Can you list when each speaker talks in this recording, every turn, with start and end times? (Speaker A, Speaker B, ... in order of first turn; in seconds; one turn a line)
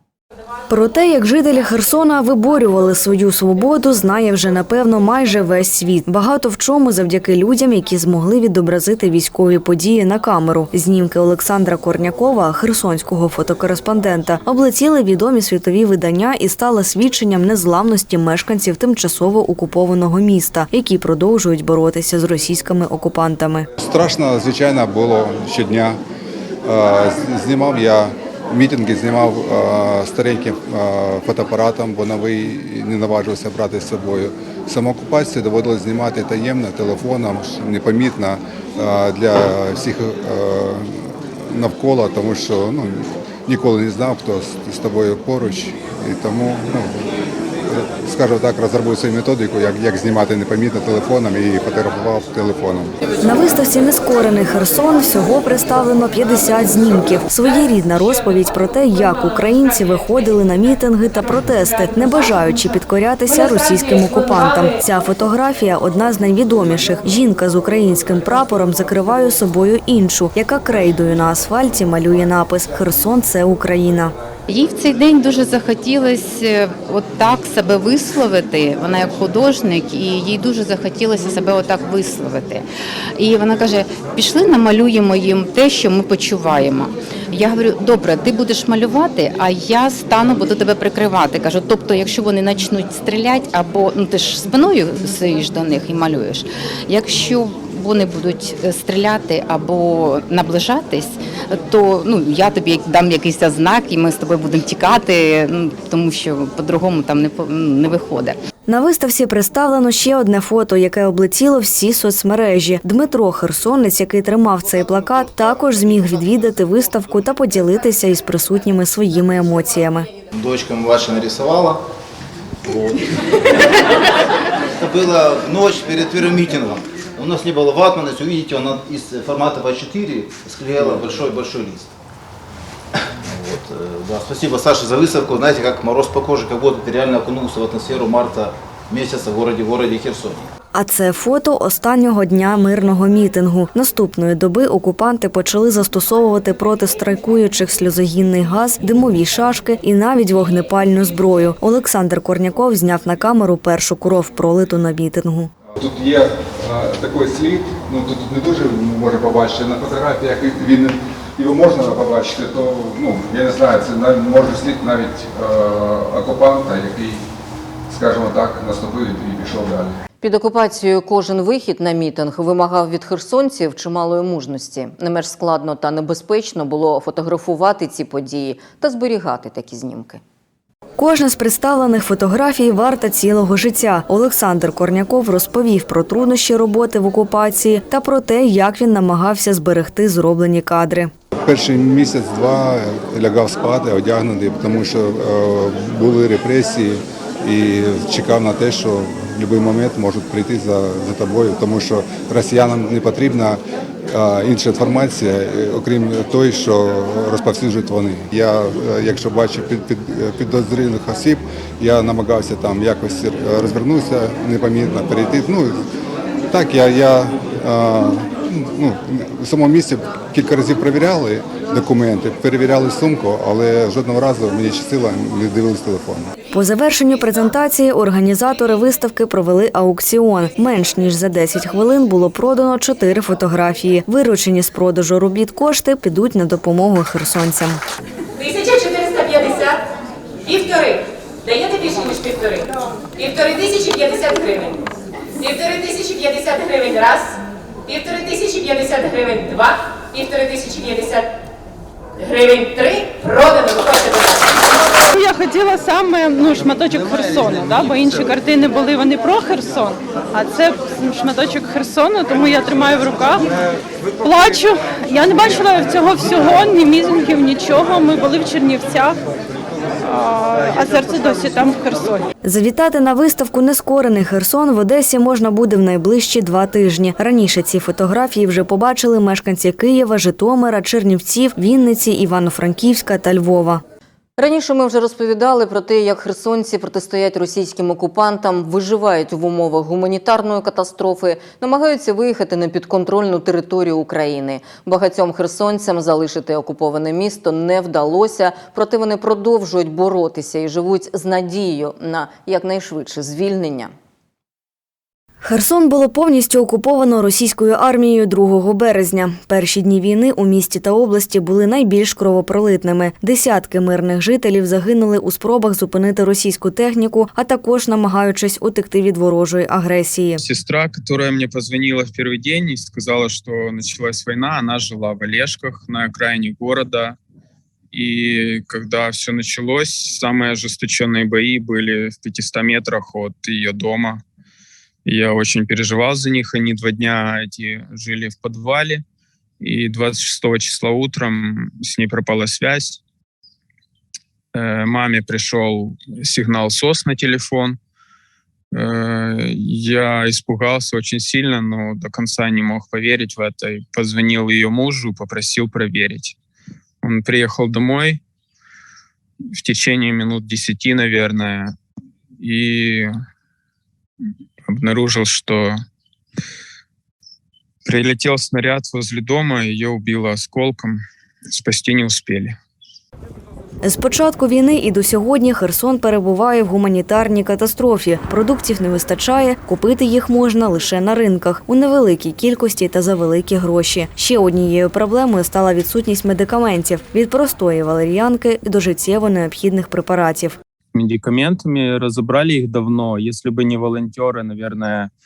Speaker A: 0.7-23.7
Speaker B: 23.8-26.0
Speaker B: 26.6-47.1
Speaker B: 47.6-53.0
Speaker A: 53.2-74.1
Speaker C: 74.5-82.6
Speaker C: 83.2-108.3
Speaker A: 108.7-120.1
Speaker D: 120.3-121.8
Speaker D: 122.7-123.2
Speaker D: 124.8-131.9
Speaker D: 133.2-140.4
Speaker A: 140.7-155.5
Speaker B: 155.7-167.2
Speaker B: 167.9-170.0
Speaker E: 170.2-180.2
Speaker A: 181.0-191.1
Speaker B: 191.4-215.8
Speaker B: 216.5-226.3
Speaker A: 226.5-237.8
Speaker F: 238.3-239.8
Speaker F: 240.4-244.8
Speaker F: 245.4-251.3
Speaker F: 252.2-254.6
Speaker G: 255.1-263.5
Speaker G: 264.2-269.2
Speaker G: 270.0-272.2
Speaker A: 272.4-283.8
Speaker E: 284.4-303.9
Speaker A: 305.4-320.4
Speaker H: 320.4-327.1
Speaker H: 327.9-334.2
Speaker H: 335.0-339.0
Speaker H: 339.6-343.0
Speaker H: 344.5-347.8
Speaker H: 348.7-356.4
Speaker H: 357.0-358.2
Speaker H: 359.5-361.7
Speaker H: 362.4-363.1
Speaker H: 364.6-365.8
Speaker H: 367.8-372.6
Speaker A: 373.8-390.6
Speaker H: 390.9-395.1